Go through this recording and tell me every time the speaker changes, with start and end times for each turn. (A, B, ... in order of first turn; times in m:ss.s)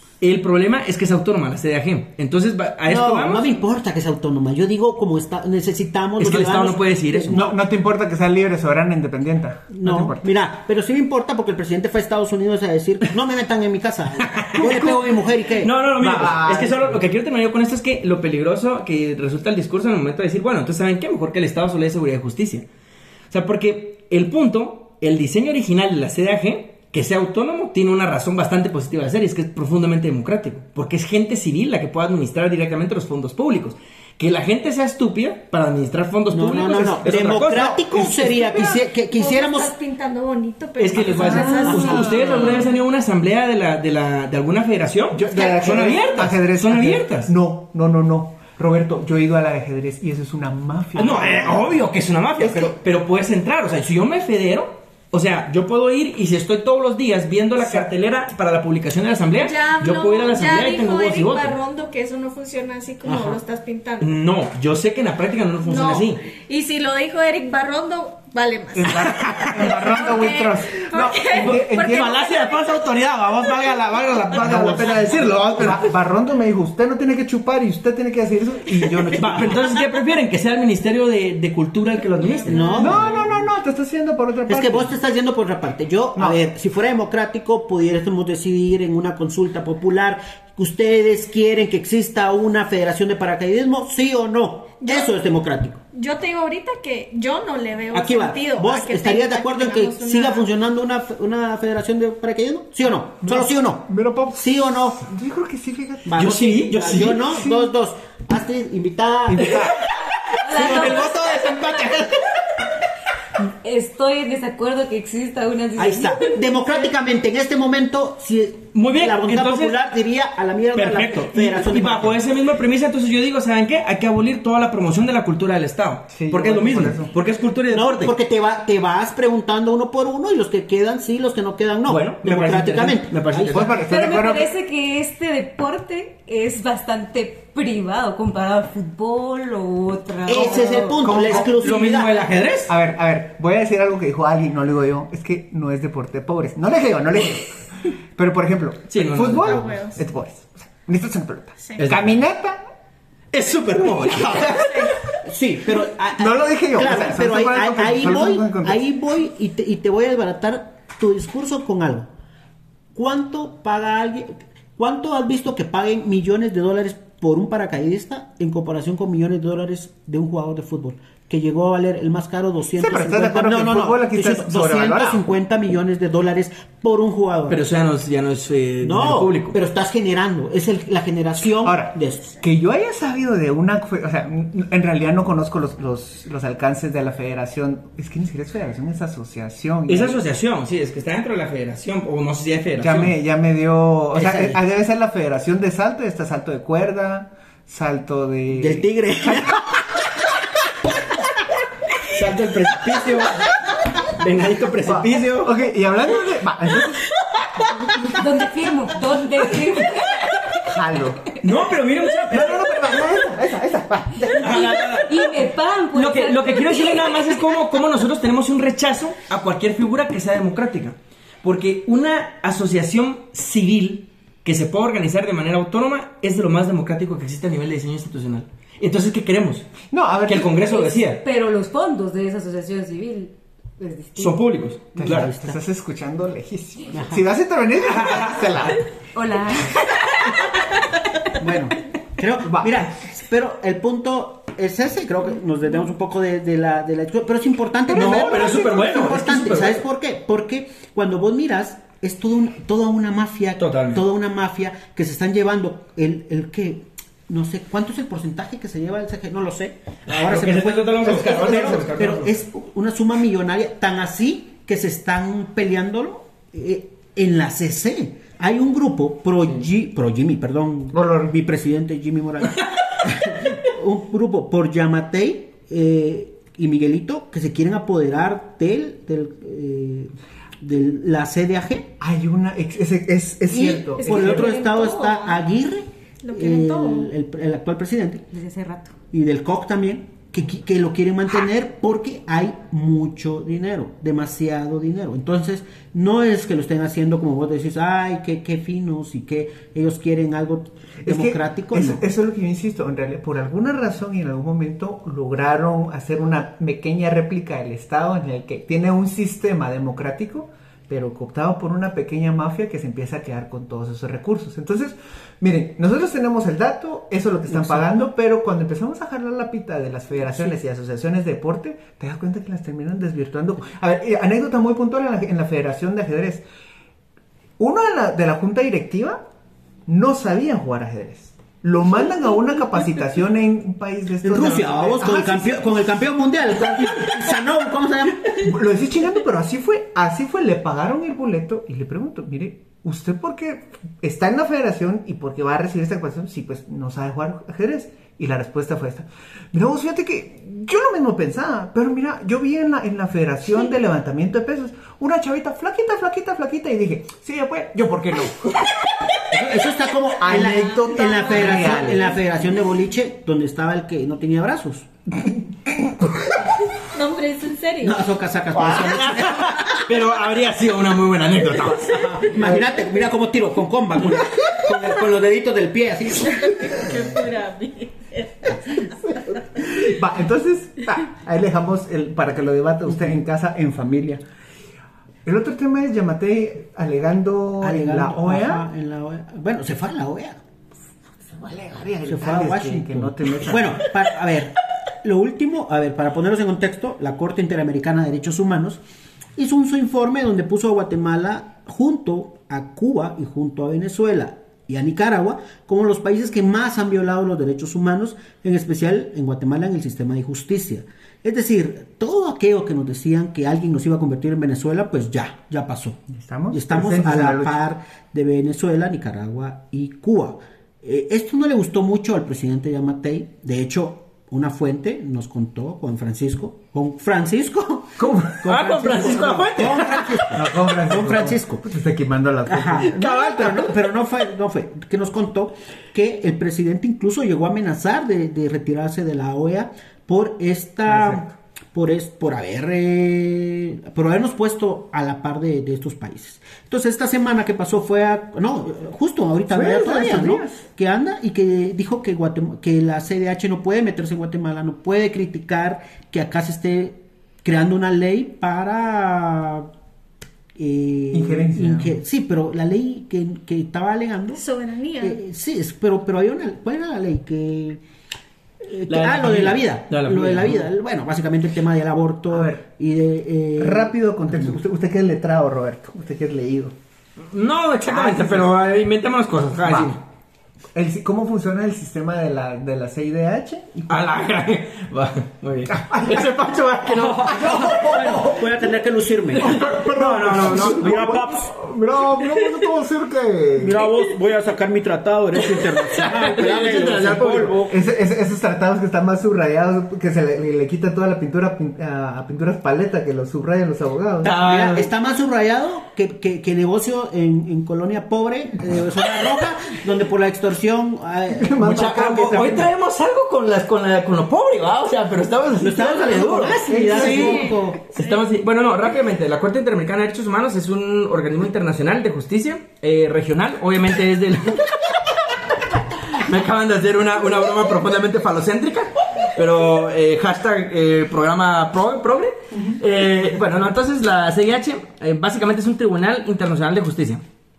0:00.2-0:03.4 A
0:02.8-0:07.4 B
0:06.2-0:07.4 A
0:07.3-0:10.3 C
0:09.7-0:15.7 B
0:14.2-0:22.6 A
0:16.0-0:17.0 C
0:23.3-0:38.3 A
0:36.3-0:39.7 B
0:36.8-0:38.7 C
0:38.4-0:42.5 D
0:40.8-0:47.3 A
0:41.1-0:42.6 B
0:41.2-0:42.7 C
0:41.2-0:42.0 E
0:45.1-0:51.8 C
0:45.3-0:46.2 D
0:51.0-1:01.6 A
0:52.4-0:52.7 C
0:59.4-1:04.1 D
1:03.0-1:03.4 B
1:04.0-1:06.2 A
1:05.6-1:12.7 D
1:08.7-1:12.2 C
1:11.3-1:15.9 A
1:14.3-1:19.7 C
1:19.1-1:23.0 A
1:22.2-1:23.3 D
1:22.5-1:23.4 B
1:22.7-1:25.0 C
1:24.5-1:35.8 B
1:34.8-1:35.1 D
1:35.9-1:40.5 D
1:37.9-1:45.0 B
1:43.2-1:46.2 C
1:46.0-1:49.6 B
1:46.2-1:47.3 A
1:47.3-1:47.7 C
1:49.3-1:49.8 C
1:49.4-1:49.8 A
1:50.4-1:51.4 E
1:50.5-1:52.0 A
1:50.5-1:51.0 B
1:53.4-1:56.7 E
1:55.8-2:02.2 B
1:58.7-1:59.8 A
2:00.7-2:08.1 A
2:06.1-2:07.1 C
2:07.7-2:13.7 B
2:11.9-2:13.8 A
2:13.5-2:14.5 C
2:13.8-2:21.1 E
2:20.2-2:22.2 B
2:20.3-2:21.5 C
2:21.1-2:22.7 A
2:22.7-2:32.6 C
2:28.9-2:29.6 A
2:29.4-2:30.0 D
2:31.8-2:32.1 A
2:33.3-2:35.0 A
2:34.4-2:34.9 D
2:35.2-2:42.1 B
2:36.2-2:38.8 C
2:42.9-2:57.6 B
2:52.8-2:55.3 C
2:57.5-2:59.5 A
2:58.8-3:02.3 B
3:01.6-3:10.2 C
3:09.9-3:13.1 A
3:12.8-3:19.6 C
3:14.1-3:14.6 B
3:18.5-3:19.6 B
3:22.1-3:25.5 A
3:24.8-3:27.1 C
3:28.0-3:30.7 E
3:30.7-3:31.3 C
3:31.4-3:32.8 A
3:32.3-3:34.9 C
3:34.4-3:51.2 A
3:34.7-3:37.4 E
3:49.9-3:50.6 C
3:50.6-3:54.3 E
3:54.2-3:55.3 A
3:55.0-3:58.8 C
3:55.0-3:55.6 B
3:56.9-3:57.2 B
3:58.0-3:58.5 A
3:59.1-4:00.8 E
4:01.4-4:41.9 B
4:02.4-4:02.8 C
4:07.9-4:09.8 A
4:07.9-4:08.8 C
4:13.6-4:14.0 A
4:20.1-4:22.4 A
4:30.9-4:31.3 C
4:42.0-4:44.5 C
4:43.5-4:48.2 B
4:44.0-4:44.8 E
4:44.3-4:45.4 D
4:46.2-4:47.1 D
4:48.3-4:48.9 E
4:49.1-5:02.0 B
5:01.0-5:26.4 C
5:27.6-5:29.2 C
5:29.9-5:35.8 C
5:34.2-5:38.5 B
5:36.6-5:37.1 C
5:38.3-5:58.6 C
5:59.3-6:04.9 B
6:00.2-6:02.2 C
6:01.0-6:02.1 D
6:05.8-6:06.1 C
6:06.8-6:08.1 D
6:07.8-6:09.8 B
6:08.5-6:12.3 A
6:11.8-6:16.7 B
6:12.4-6:12.7 C
6:16.4-6:18.8 D
6:19.1-6:24.2 C
6:25.2-6:28.6 C
6:27.6-6:30.4 B
6:31.2-6:33.9 C
6:32.0-6:38.8 B
6:39.4-7:11.6 B
6:56.1-6:57.6 C
7:08.0-7:08.4 C
7:08.3-7:10.4 A
7:10.3-7:13.6 C
7:12.5-7:39.7 B
7:13.0-7:13.6 A
7:20.8-7:21.3 C
7:29.5-7:30.6 C
7:40.5-7:44.4 B
7:41.1-7:42.0 C
7:44.3-7:45.2 D
7:45.0-7:47.8 B
7:48.6-7:54.6 B
7:48.9-7:50.7 A
7:52.3-7:52.6 C
7:53.6-7:56.7 C
7:57.3-8:00.0 A
7:57.9-7:58.5 C
7:59.6-7:59.9 C
8:00.7-8:04.0 C
8:03.9-8:08.3 A
8:05.7-8:08.3 C
8:06.9-8:11.5 B
8:09.4-8:13.8 C
8:09.4-8:11.2 A
8:12.2-8:12.6 A
8:13.6-8:17.7 B
8:15.4-8:17.7 A
8:17.7-8:24.3 C
8:24.2-8:24.9 A
8:24.4-8:31.9 B
8:31.3-8:32.7 C
8:31.6-8:57.2 A
8:35.6-8:37.8 B
8:36.6-8:37.6 C